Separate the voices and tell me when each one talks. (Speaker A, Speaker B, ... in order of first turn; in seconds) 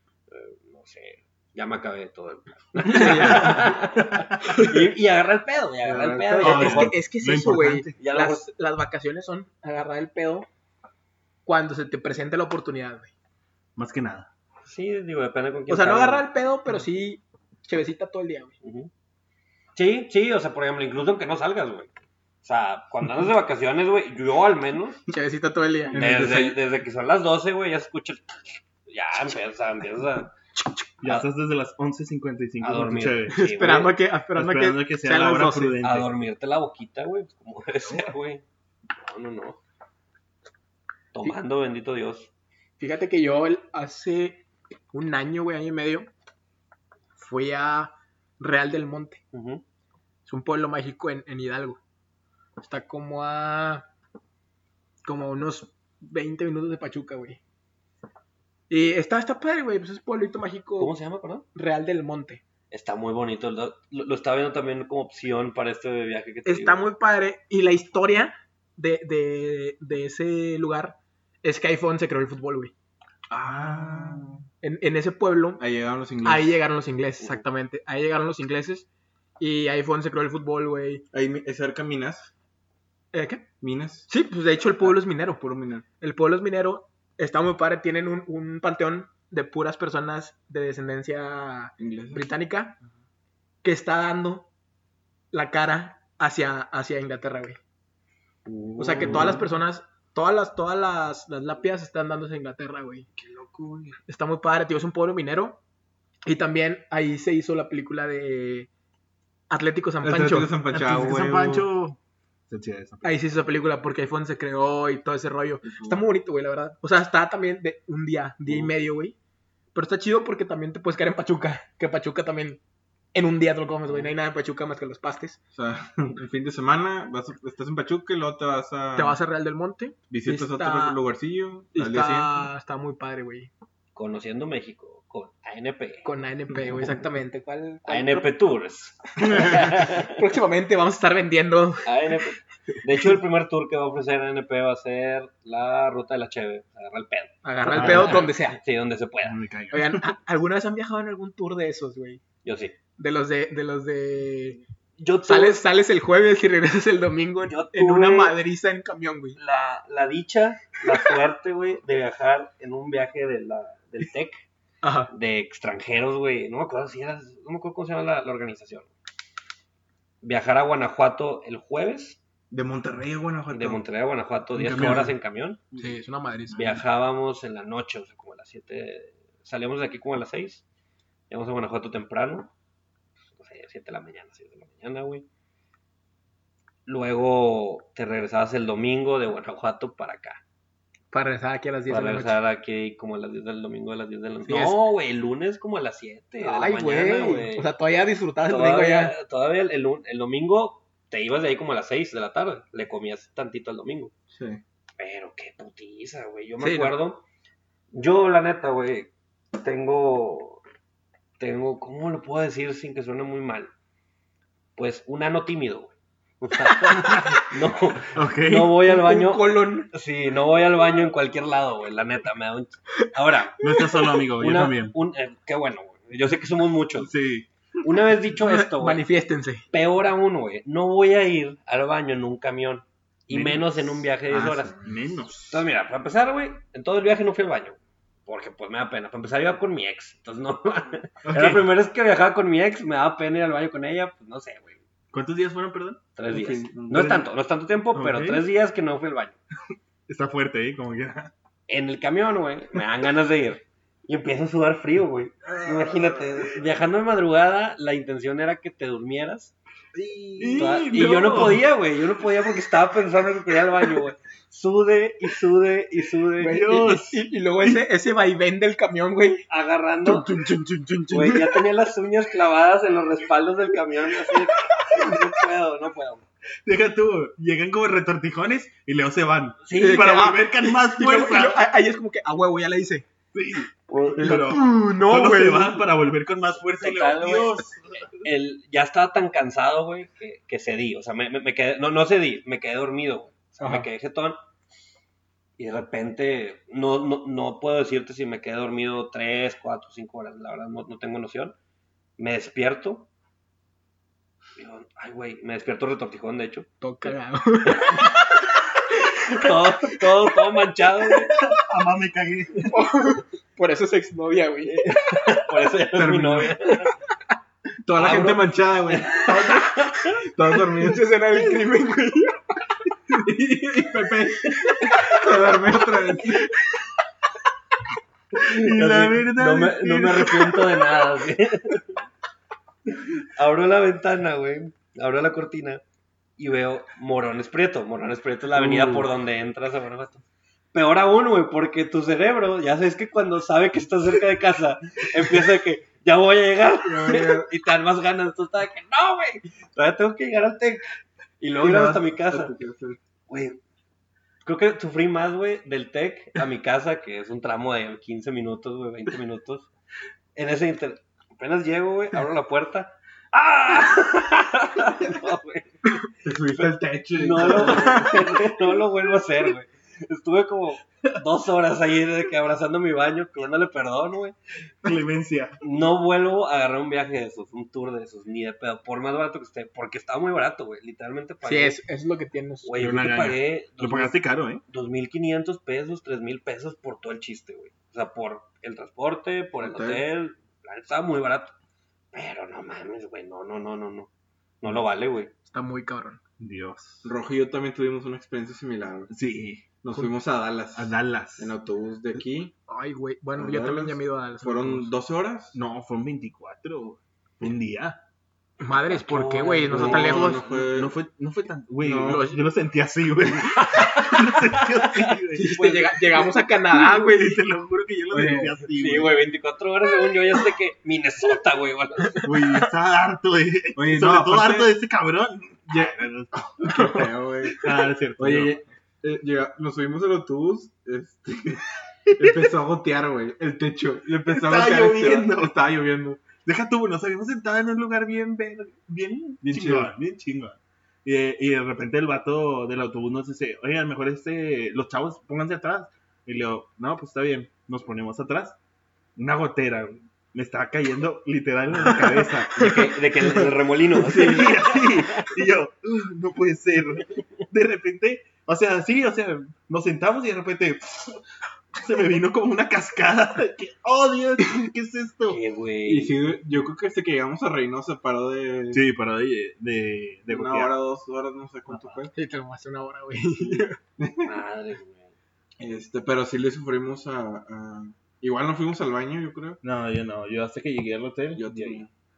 Speaker A: 0.3-7.0, 8.0-8.5, 14.7-16.3, 18.6-18.9, 19.8-21.9, 22.4-25.0, 25.9-30.3, 32.6-34.0, 35.8-38.4, 39.0-39.6, 41.1-42.3, 49.3-49.6, 60.8-61.5, 62.7-66.8, 133.9-136.1, 137.9-140.1, 141.8-149.4, 152.4-152.8, 155.0-155.6, 157.5-158.4, 159.4-164.4, 165.1-168.9, 170.2-172.2, 173.5-175.7, 176.5-180.6, 181.3-182.5, 183.3-185.3, 186.9-190.4, 191.9-197.7, 198.5-204.1, 205.0-207.2, 207.9-210.6, 211.4-213.7, 214.8-227.1, 227.8-229.0, 229.7-234.8, 235.5-244.8, 246.2-249.4, 251.7-259.5, 260.5-266.8, 269.5-270.3, 271.1-276.2, 279.7-280.1, 283.9-284.4, 286.8-294.4, 295.6-301.6, 302.2-303.1, 304.6-307.1, 307.7-308.2, 309.2-311.4, 314.7-316.9, 318.0-320.2, 328.4-332.0, 333.1-335.8, 336.4-340.2, 340.7-350.9, 351.4-352.5, 353.3-353.6, 354.4-359.7, 360.4-365.9, 366.5-374.4, 375.6-381.8, 382.6-391.5, 392.1-394.1, 394.6-395.3, 408.9-410.4, 418.7-422.4, 452.6-455.3, 465.3-466.2, 474.2-475.1
Speaker B: 2.8-3.8, 6.4-10.5, 11.5-13.1, 15.7-18.5, 25.1-26.0, 33.3-35.8, 42.8-46.1, 47.2-49.2, 50.3-51.8, 52.6-53.9, 55.0-57.4, 58.7-60.9, 61.5-62.4, 66.5-72.7, 74.6-75.6, 76.2-78.9, 79.4-81.0, 83.1-83.5, 84.1-85.4, 86.0-92.8, 93.6-94.5, 95.3-97.6, 98.8-103.1, 104.1-105.6, 106.3-108.7, 109.5-110.5, 113.0-119.2, 119.7-122.6, 123.1-125.4, 129.0-131.0, 131.7-133.5, 136.0-138.2, 139.2-141.9, 147.4-148.6, 149.7-152.2, 153.0-154.6, 155.2-159.4, 164.8-165.1, 175.8-176.7, 191.1-192.4, 194.4-194.8, 196.4-199.2, 206.6-206.9, 218.8-219.9, 228.4-229.7, 266.4-269.5, 279.7-283.1, 284.2-285.8, 293.6-293.9, 306.8-310.0, 312.7-315.2, 320.8-322.4, 323.5-325.4, 381.4-382.7, 395.5-396.2, 402.7-404.9, 408.6-410.4, 412.0-412.4, 413.8-414.1, 415.3-417.4, 426.7-427.1, 452.0-453.5, 454.1-454.5, 472.1-473.8
Speaker C: 5.8-6.7, 25.9-26.6, 73.3-74.4, 75.6-76.6, 81.1-82.3, 83.6-84.1, 84.8-85.8, 91.8-92.3, 98.5-99.5, 103.2-104.0, 110.0-111.7, 115.6-116.0, 125.5-129.2, 130.1-132.5, 172.5-173.8, 204.3-204.6, 246.3-247.1, 260.0-260.5, 315.9-316.6, 317.8-321.1, 323.2-326.5, 346.8-347.5, 351.6-353.0, 366.2-368.3, 389.6-390.0, 397.0-399.1, 399.8-402.5, 403.4-405.6, 409.7-410.9, 411.8-412.3, 418.1-418.6, 423.8-424.7, 425.7-431.7, 432.2-436.3, 439.4-439.9, 465.9-468.8, 470.3-472.1, 474.0-474.4, 475.6-479.6, 481.4-481.9
Speaker D: 6.4-8.0, 13.8-14.3, 31.0-33.5, 34.4-36.1, 73.5-74.4, 99.0-99.3, 110.7-113.2, 147.7-148.3, 149.2-150.2, 174.6-175.2, 217.1-217.4, 218.1-218.8, 223.6-224.9, 227.0-227.5, 233.3-235.7, 241.2-241.7, 245.1-246.0, 246.9-247.2, 247.9-248.4, 250.1-251.3, 260.4-261.6, 266.4-267.8, 270.0-271.7, 276.6-281.6, 283.3-288.1, 311.4-312.8, 328.4-330.9, 338.6-339.1, 374.8-375.6, 382.8-384.6, 396.4-397.1, 399.1-399.7, 400.8-401.5, 405.5-408.0, 409.8-419.1, 422.2-426.9, 427.6-428.6, 432.1-432.5, 434.3-435.6, 436.4-448.6, 449.2-452.9, 454.1-461.2, 461.8-465.4, 468.7-470.8, 471.7-472.0, 479.6-481.9